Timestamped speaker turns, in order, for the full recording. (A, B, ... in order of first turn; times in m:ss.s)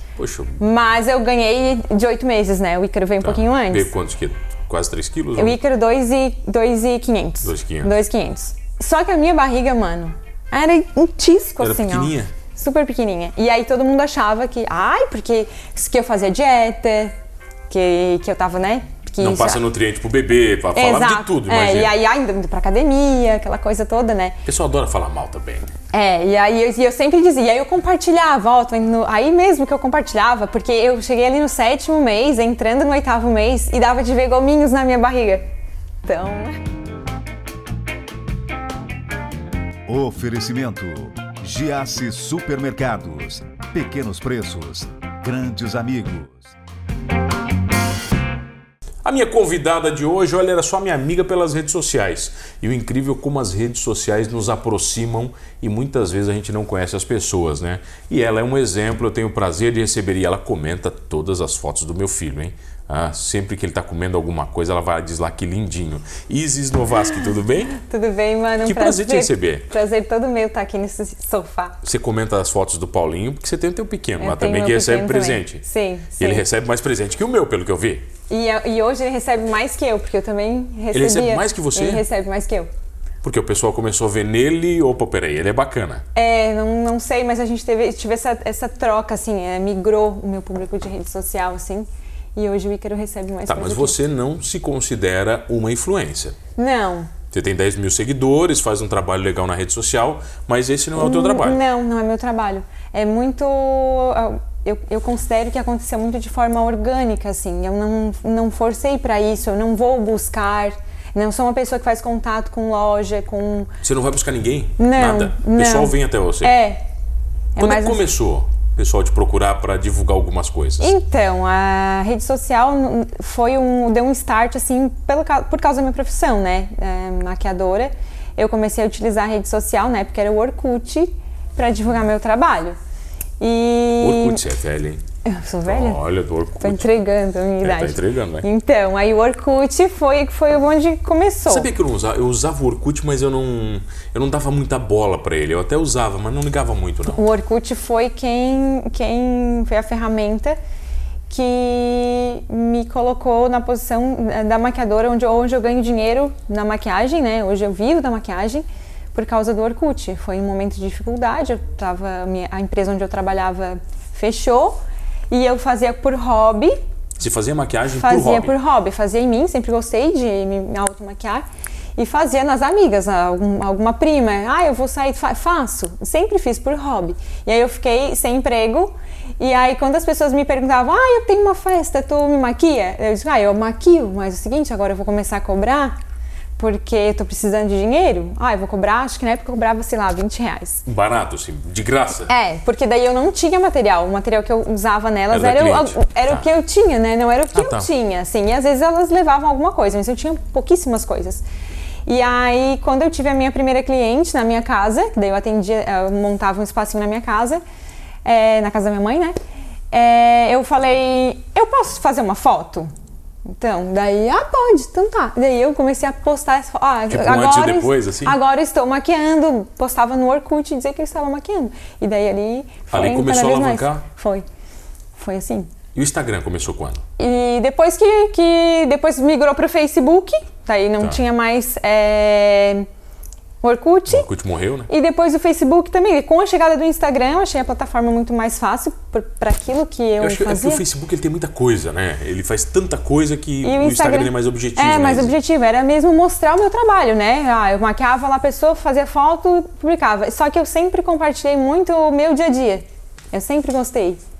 0:00.2-0:00.6 A
0:00.6-0:03.9 B
0:03.2-0:05.6 A
0:05.4-0:17.1 B
0:07.4-0:07.9 A
0:11.6-0:12.3 A
0:17.7-0:19.6 B
0:19.2-0:21.9 A
0:20.7-0:24.4 B
0:24.4-0:25.7 A
0:25.9-0:35.4 B
0:36.0-0:36.6 B
0:39.8-0:46.5 C
0:49.0-1:07.8 A
1:07.7-1:11.8 B
1:08.6-1:09.6 A
1:11.8-1:15.6 A
1:14.2-1:16.4 B
1:16.2-1:18.1 A
1:18.3-1:22.7 B
1:20.9-1:22.0 A
1:23.2-1:26.0 A
1:26.1-1:34.0 B
1:33.5-1:36.4 A
1:36.6-1:37.1 B
1:37.3-1:41.6 A
1:41.0-1:53.7 B
1:53.8-1:56.5 A
1:54.8-1:56.8 B
1:57.6-1:58.0 B
1:57.6-2:01.0 A
2:00.8-2:12.8 B
2:13.4-2:14.4 B
2:14.0-2:15.0 A
2:15.2-2:16.0 B
2:15.6-2:16.9 A
2:16.6-2:21.7 B
2:17.6-2:18.5 A
2:21.5-2:27.2 A
2:27.0-2:30.6 B
2:31.3-2:44.8 B
2:45.3-2:46.8 B
2:47.2-2:48.5 A
2:47.9-2:51.4 B
2:52.0-3:06.0 B
3:06.6-3:10.8 B
3:10.8-3:12.3 A
3:12.2-3:21.4 B
3:15.3-3:16.4 A
3:17.5-3:17.9 A
3:22.0-3:27.6 B
3:28.2-3:29.3 B
3:29.9-3:32.9 B
3:33.5-3:44.4 B
3:37.1-3:38.4 A
3:42.9-3:44.0 A
3:45.2-3:45.7 B
3:45.9-3:47.0 A
3:47.2-3:52.9 B
3:53.6-3:54.3 B
3:54.1-3:54.9 A
3:54.9-4:00.8 B
4:00.2-4:05.3 A
4:03.6-4:14.2 B